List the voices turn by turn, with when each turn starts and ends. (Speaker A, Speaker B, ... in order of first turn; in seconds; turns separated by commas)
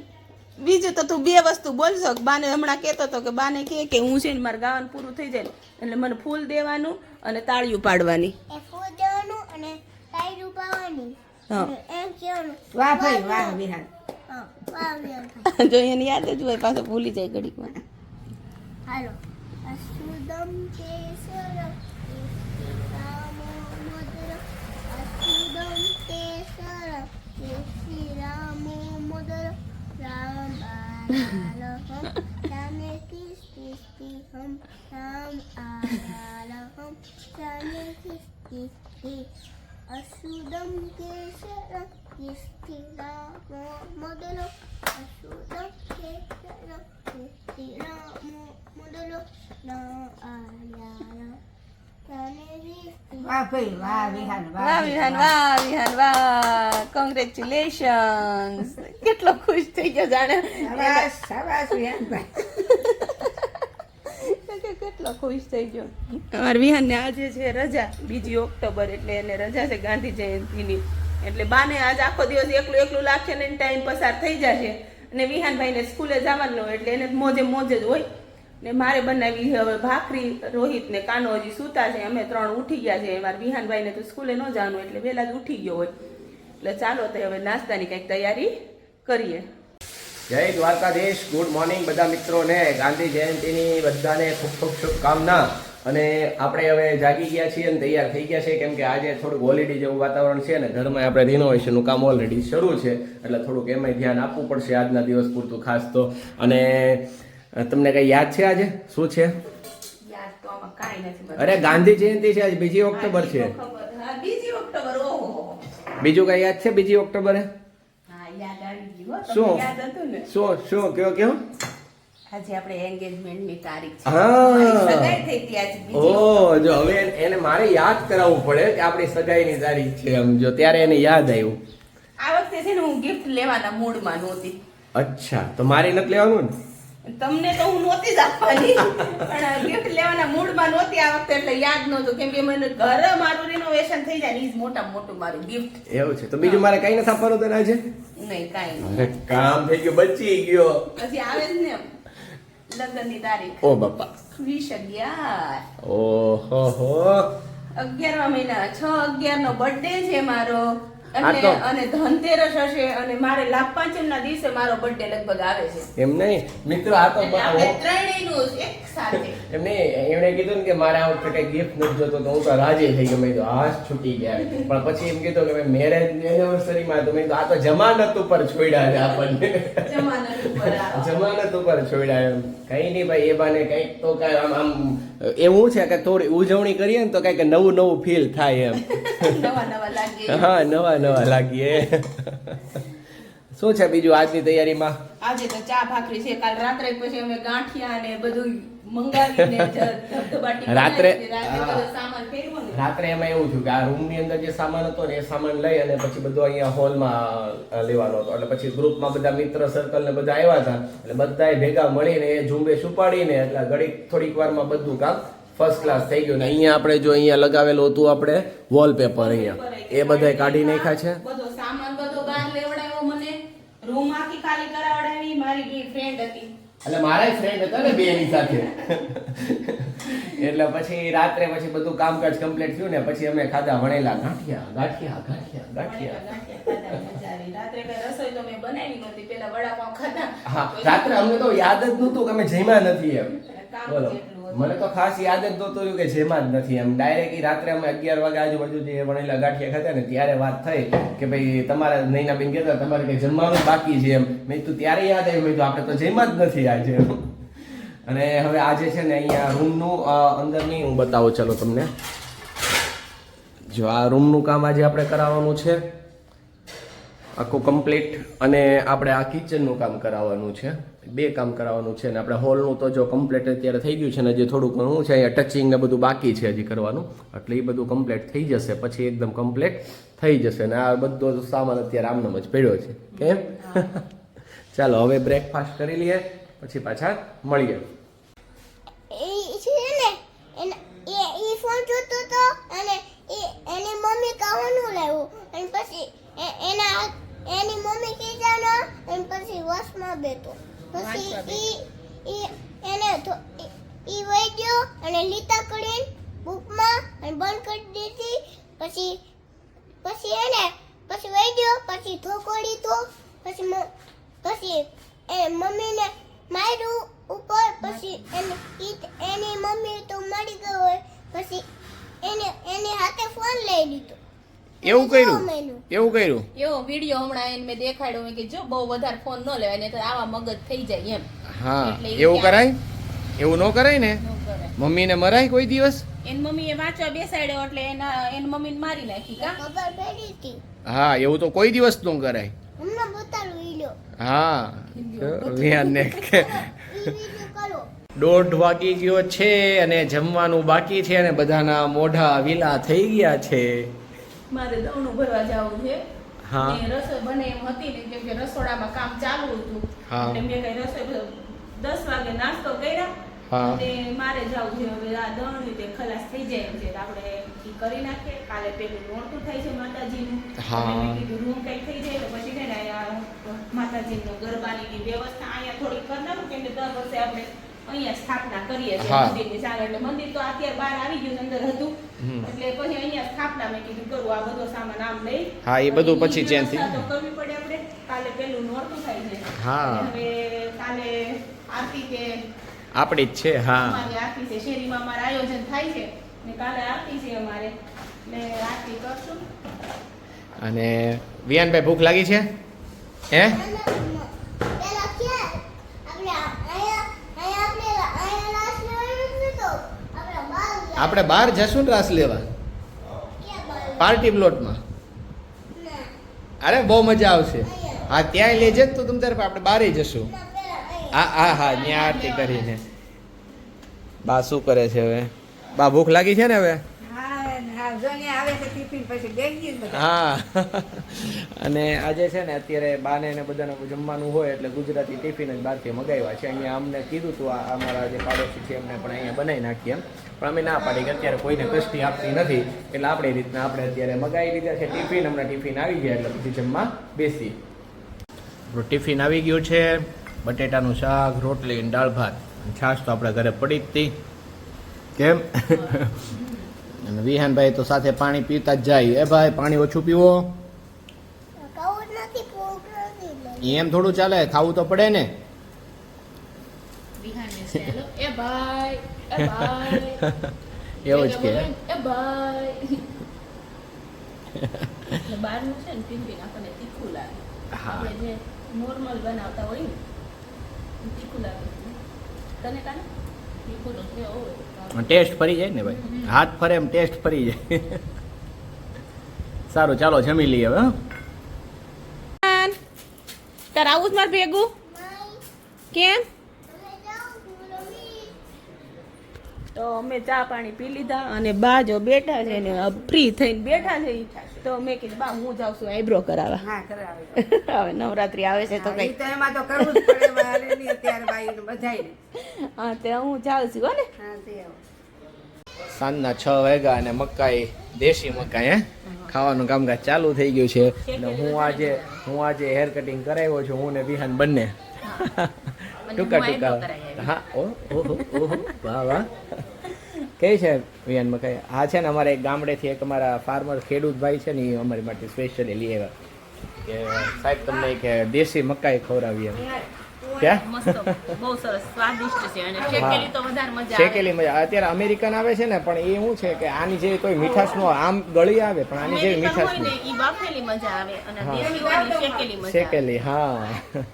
Speaker A: 0.6-8.4, Speaker B: 8.5-13.6, Speaker C: 12.7-13.9, Speaker B: 14.3-15.5, Speaker A: 15.5-17.8, Speaker B: 18.9-39.3, Speaker B: 39.9-51.4, Speaker B: 52.1-54.4, Speaker C: 53.2-55.3, Speaker A: 54.5-61.1, Speaker C: 60.6-62.3, Speaker A: 62.4-78.1, Speaker A: 78.6-85.9, Speaker A: 86.6-88.5, Speaker A: 89.0-89.5, Speaker D: 90.3-109.3, Speaker A: 110.1-111.9, Speaker D: 111.4-113.5, Speaker A: 112.9-115.6, Speaker D: 116.0-117.5, Speaker A: 118.1-120.3, Speaker D: 119.3-119.7, Speaker D: 120.3-121.4, Speaker A: 122.3-127.0, Speaker D: 124.1-125.2, Speaker D: 125.9-131.6, Speaker A: 132.2-134.6, Speaker D: 134.9-136.5, Speaker A: 137.1-145.8, Speaker D: 145.9-147.8, Speaker A: 146.4-146.7, Speaker A: 148.2-149.1, Speaker D: 148.8-150.8, Speaker A: 151.0-151.9, Speaker A: 152.7-153.6, Speaker D: 153.6-154.1, Speaker A: 154.3-155.6, Speaker D: 155.8-157.3, Speaker A: 157.8-165.9, Speaker D: 161.2-161.6, Speaker D: 166.0-167.8, Speaker A: 167.2-169.4, Speaker D: 169.5-179.9, Speaker A: 179.8-181.2, Speaker D: 180.4-189.4, Speaker A: 188.7-190.8, Speaker D: 190.3-192.8, Speaker D: 193.5-194.9, Speaker A: 195.2-202.8, Speaker D: 199.4-199.7, Speaker D: 200.7-201.8, Speaker D: 202.7-221.2, Speaker A: 215.7-216.2, Speaker A: 219.2-226.5, Speaker D: 226.8-236.2, Speaker A: 227.8-228.7, Speaker A: 235.8-241.4, Speaker D: 240.5-243.3, Speaker A: 243.4-244.8, Speaker D: 243.9-257.3, Speaker D: 258.1-261.9, Speaker D: 263.7-265.8, Speaker D: 267.4-284.0, Speaker A: 283.1-283.9, Speaker D: 284.7-287.8, Speaker B: 289.1-309.2, Speaker A: 300.9-301.7, Speaker B: 310.0-313.9, Speaker B: 314.4-321.6, Speaker B: 322.2-324.2, Speaker B: 324.8-325.8, Speaker D: 324.8-326.4, Speaker A: 326.6-331.3, Speaker D: 331.5-332.8, Speaker A: 331.8-332.7, Speaker D: 333.4-334.2, Speaker A: 334.2-334.7, Speaker D: 334.8-336.0, Speaker A: 336.2-339.6, Speaker B: 339.4-340.6, Speaker D: 340.9-342.5, Speaker B: 342.8-343.9, Speaker D: 344.2-346.9, Speaker A: 344.9-346.3, Speaker B: 346.2-347.9, Speaker D: 348.2-353.9, Speaker A: 354.5-356.0, Speaker D: 356.5-356.8, Speaker A: 356.6-392.4, Speaker D: 360.1-360.5, Speaker D: 363.5-363.8, Speaker D: 370.6-371.2, Speaker D: 379.0-379.4, Speaker D: 382.2-382.5, Speaker D: 385.6-387.0, Speaker D: 389.6-390.1, Speaker D: 392.9-394.1, Speaker A: 393.7-397.7, Speaker A: 398.3-399.4, Speaker D: 400.6-402.4, Speaker D: 403.3-403.6, Speaker B: 403.5-411.5, Speaker D: 411.0-412.4, Speaker B: 413.3-414.3, Speaker D: 414.0-414.8, Speaker B: 415.8-416.1, Speaker D: 416.6-420.3, Speaker B: 417.6-418.2, Speaker B: 420.2-422.3, Speaker D: 421.1-422.8, Speaker A: 421.7-422.7, Speaker D: 424.3-426.8, Speaker C: 427.0-430.1, Speaker D: 429.9-447.6, Speaker D: 448.7-454.1, Speaker D: 455.2-456.3, Speaker A: 455.7-456.5, Speaker D: 457.1-460.4, Speaker B: 461.6-463.9, Speaker D: 463.6-465.3, Speaker A: 467.2-470.2, Speaker D: 469.4-470.5, Speaker A: 471.0-473.0, Speaker D: 471.0-471.7, Speaker D: 474.6-475.2, Speaker A: 475.2-480.0, Speaker D: 477.7-478.1, Speaker A: 481.0-482.0, Speaker A: 482.6-483.1, Speaker A: 483.6-485.1, Speaker D: 484.9-488.0, Speaker A: 485.8-486.4, Speaker D: 489.7-490.9, Speaker A: 492.4-492.8, Speaker A: 493.7-494.7, Speaker B: 494.9-495.4, Speaker A: 495.9-496.2, Speaker B: 496.7-498.3, Speaker A: 499.8-506.6, Speaker C: 506.5-507.4, Speaker A: 507.4-509.1, Speaker C: 508.7-512.1, Speaker A: 509.8-511.2, Speaker A: 512.4-514.1, Speaker C: 514.2-514.8, Speaker D: 516.0-529.3, Speaker A: 519.1-519.3, Speaker A: 521.0-522.2, Speaker A: 526.1-527.3, Speaker A: 527.9-528.7, Speaker D: 530.4-536.1, Speaker D: 536.9-539.6, Speaker C: 537.6-537.9, Speaker C: 539.5-540.6, Speaker D: 540.4-541.4, Speaker A: 540.6-544.3, Speaker C: 542.8-543.2, Speaker D: 542.9-543.3, Speaker D: 543.9-550.0, Speaker C: 547.4-547.8, Speaker A: 549.0-553.0, Speaker D: 551.4-551.8, Speaker C: 551.6-552.5, Speaker D: 552.6-553.9